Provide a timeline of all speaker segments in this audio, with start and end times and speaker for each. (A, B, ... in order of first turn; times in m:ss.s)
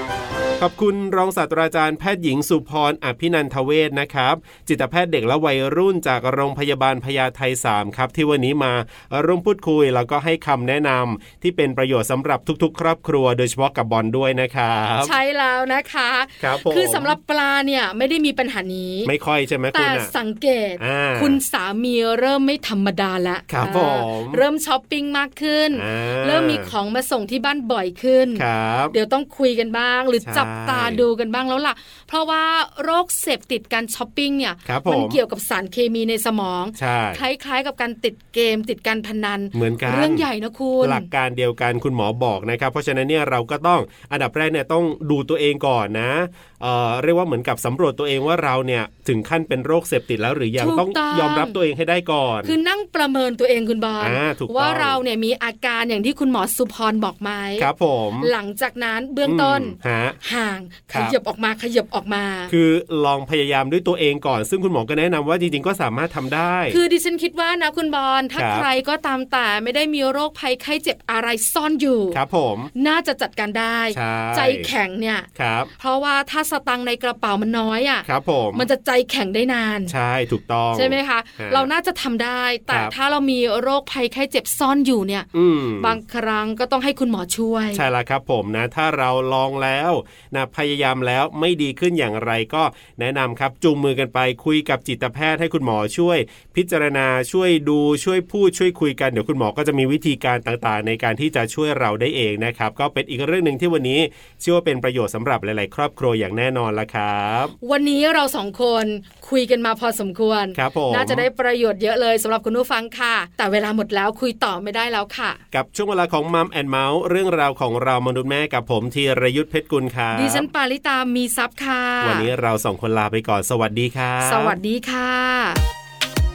0:00.6-0:15.1 A
0:15.0-0:19.1 B
0:16.4-0:17.2 A
0:19.0-0:20.1 A
0:19.7-0:41.1 B
0:20.8-0:21.4 A
0:23.5-0:24.4 A
0:25.7-0:26.7 A
0:28.4-0:29.0 A
0:30.2-0:31.1 A
0:34.6-0:35.2 A
0:36.8-0:37.2 A
0:39.5-0:40.3 A
0:40.8-0:52.6 A
0:50.6-0:51.6 B
0:52.4-0:57.7 B
0:54.0-0:55.0 A
0:57.6-0:58.3 A
0:58.2-1:02.5 B
0:59.2-1:00.2 A
1:02.5-1:06.8 A
1:06.7-1:12.2 B
1:08.4-1:08.7 A
1:12.1-1:12.7 A
1:12.8-1:19.9 B
1:13.9-1:14.7 A
1:15.4-1:15.7 A
1:18.0-1:18.7 A
1:19.9-1:21.7 A
1:20.7-1:27.9 B
1:22.7-1:22.9 A
1:25.3-1:26.0 A
1:27.7-1:47.6 A
1:47.6-1:55.4 B
1:50.6-1:51.3 A
1:55.5-2:00.5 A
2:00.1-2:02.3 B
2:02.0-2:04.6 A
2:04.2-2:05.6 B